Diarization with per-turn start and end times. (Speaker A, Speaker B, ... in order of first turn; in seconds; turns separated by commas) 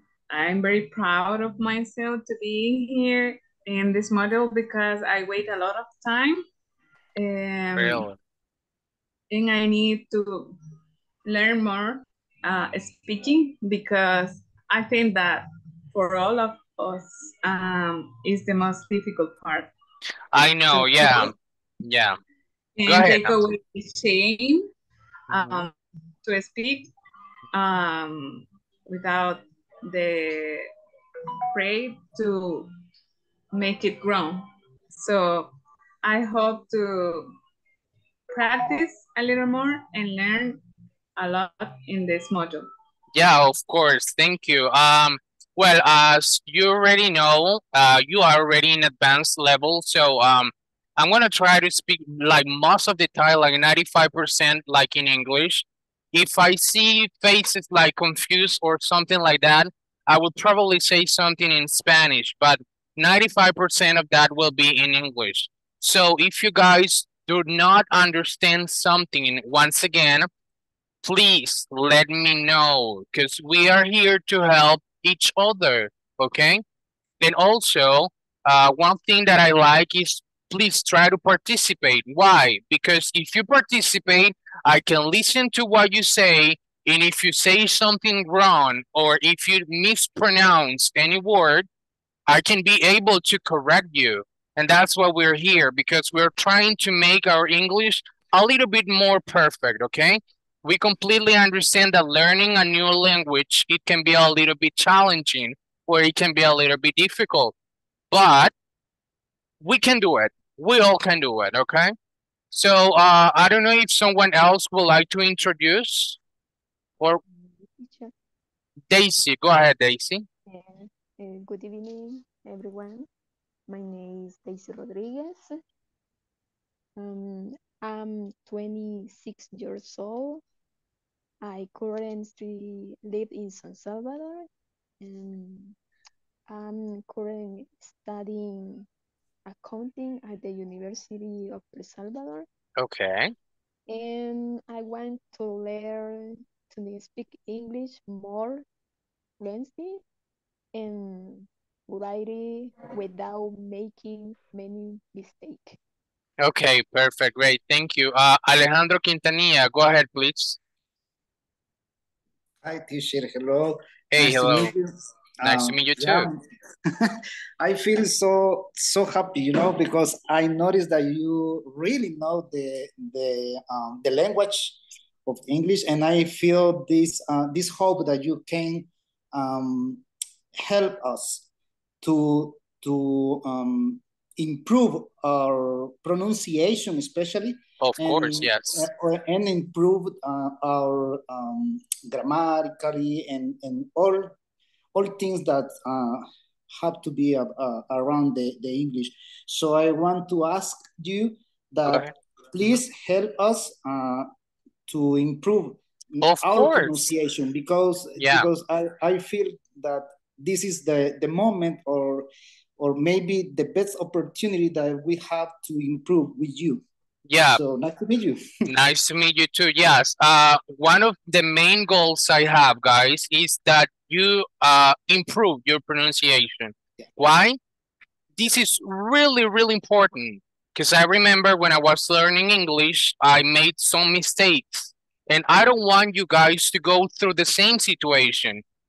Speaker A: 0.3-6.4, Speaker A: 7.2-8.1, Speaker B: 7.7-8.2, Speaker A: 9.3-10.5, Speaker A: 11.2-19.7, Speaker B: 20.3-22.2, Speaker A: 22.8-24.7, Speaker B: 22.9-23.5, Speaker A: 25.3-25.7, Speaker B: 25.3-25.6, Speaker A: 26.2-26.9, Speaker A: 27.5-30.7, Speaker A: 31.5-32.7, Speaker A: 33.5-37.3, Speaker A: 38.3-40.6, Speaker A: 41.2-42.7, Speaker B: 43.1-70.3, Speaker B: 71.0-76.6, Speaker B: 77.2-91.7, Speaker B: 92.3-107.5, Speaker B: 108.1-108.5, Speaker B: 109.6-111.9, Speaker B: 112.5-116.2, Speaker C: 117.8-118.1, Speaker B: 118.9-120.2, Speaker C: 120.5-123.1, Speaker C: 123.7-125.5, Speaker C: 127.0-130.4, Speaker C: 131.4-134.5, Speaker C: 135.0-135.8, Speaker C: 136.5-138.9, Speaker C: 139.4-142.5, Speaker B: 142.8-143.3, Speaker C: 143.9-148.6, Speaker C: 149.4-150.0, Speaker C: 150.7-155.8, Speaker B: 156.4-160.6, Speaker D: 162.6-180.0, Speaker B: 164.1-164.7, Speaker B: 165.4-166.3, Speaker D: 180.6-181.4, Speaker D: 182.0-194.3, Speaker B: 187.8-188.8, Speaker D: 194.9-204.3, Speaker D: 204.9-216.8, Speaker B: 206.2-207.1, Speaker B: 208.2-208.4, Speaker B: 217.3-217.6, Speaker D: 217.5-218.4, Speaker B: 218.7-227.6, Speaker B: 228.4-238.6